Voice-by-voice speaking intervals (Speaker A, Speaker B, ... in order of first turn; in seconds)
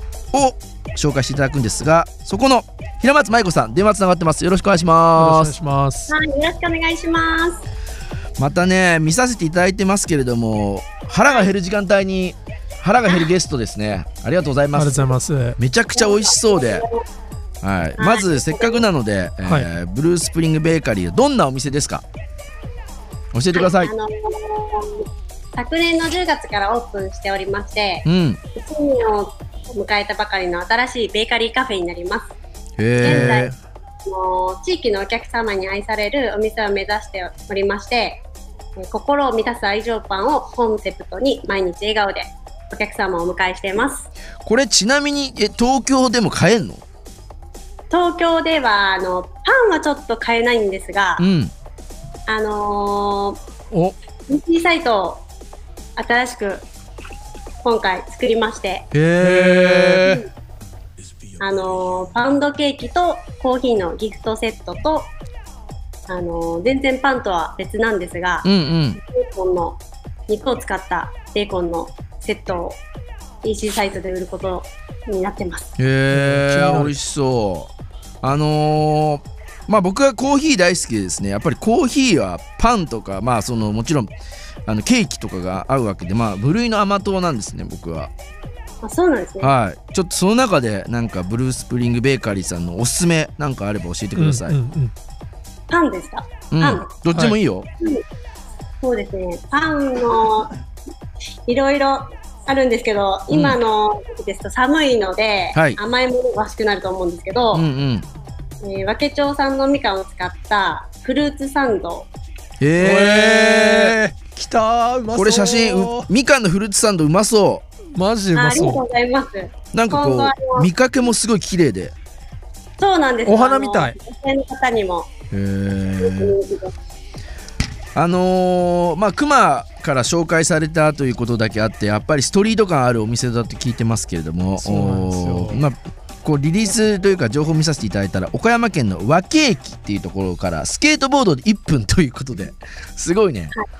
Speaker A: 0.3-5.5, 8.4-16.8, 17.6-22.0, 23.3-23.9, 28.0-28.4, 32.8-33.5, 44.4-46.8, 51.2-51.5, 58.9-60.2, 68.4-69.0, 75.8-84.1, 84.7-88.1, 89.4-94.6, 96.5-97.7, 103.3-103.6, 107.5-108.1, 112.6-114.0, 115.1-117.7, 119.7-121.9, 125.3-126.4, 127.9-143.5
Speaker B: 5.2-6.1, 14.8-15.6, 33.1-33.5, 53.7-54.0, 59.2-60.2, 76.1-76.9, 94.2-94.9, 97.1-97.3, 112.8-116.1, 117.9-118.8, 123.2-123.9, 134.6-135.6
Speaker C: 6.1-7.6, 15.9-17.0, 18.0-18.9, 23.5-32.3, 33.0-33.5, 34.1-38.2, 38.8-44.1, 47.9-51.2, 52.3-53.4, 54.3-55.2, 56.0-56.7, 57.6-58.9, 61.4-65.1, 66.1-68.5, 69.0-72.8, 73.4-75.7, 88.8-89.5, 95.7-96.9, 98.8-100.5, 101.5-107.7, 108.6-112.1, 118.3-120.7, 122.8-125.1, 126.0-126.7